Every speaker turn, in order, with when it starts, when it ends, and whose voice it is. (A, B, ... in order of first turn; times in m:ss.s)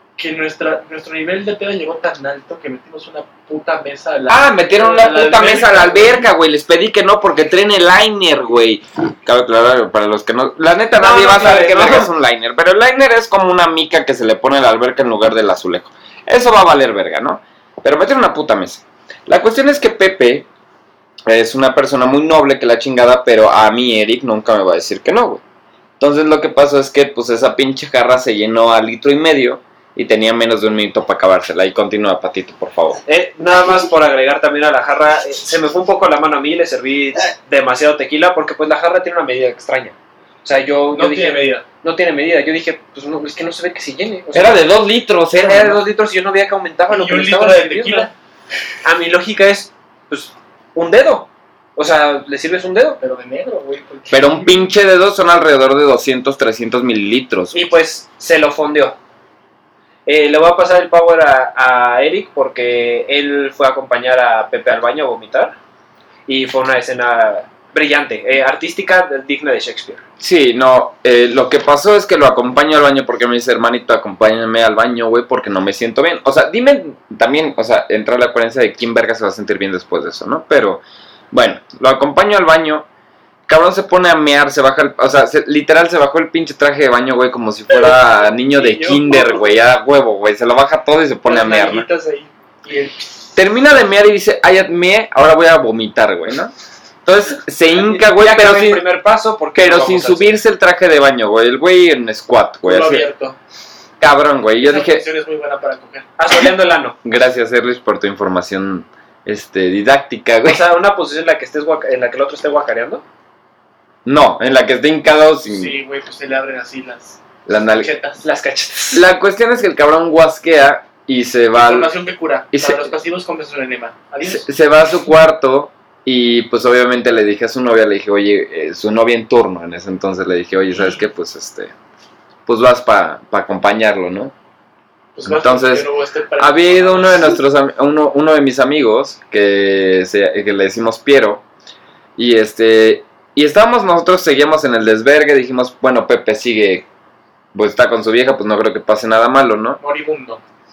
0:00.2-0:06.3 A
0:04.3-0:20.5 B
0:10.9-0:12.1 C
0:21.3-0:25.4 B
0:26.0-0:33.0 B
0:33.1-0:44.7 C
0:40.9-0:41.6 A
0:44.3-0:45.8 B
0:45.4-0:48.1 C
0:46.9-0:48.1 A
0:48.8-0:53.0 C
0:53.0-0:54.7 A
0:54.1-0:57.6 B
0:57.5-0:59.0 C
1:00.1-1:05.6 C
1:06.3-1:10.0 C
1:10.2-1:22.9 B
1:23.5-1:31.9 B
1:28.4-1:29.5 A
1:31.2-1:33.1 A
1:33.4-1:36.5 B
1:37.0-1:38.8 B
1:37.9-1:40.4 C
1:39.6-1:43.1 B
1:42.6-1:43.4 A
1:44.0-1:45.1 B
1:44.6-1:46.1 A
1:46.2-1:47.0 C
1:47.0-1:50.6 B
1:50.4-1:53.0 C
1:54.1-1:55.8 B
1:55.5-1:57.2 A
1:57.5-1:57.9 B
1:57.8-1:58.2 A
1:58.2-1:59.0 C
1:58.9-2:01.9 B
2:01.6-2:04.5 A
2:02.5-2:02.9 B
2:04.2-2:11.7 B
2:12.5-2:14.3 B
2:15.2-2:17.4 A
2:15.2-2:15.9 B
2:16.4-2:21.4 B
2:22.2-2:26.9 B
2:27.5-2:29.8 B
2:29.8-2:30.4 A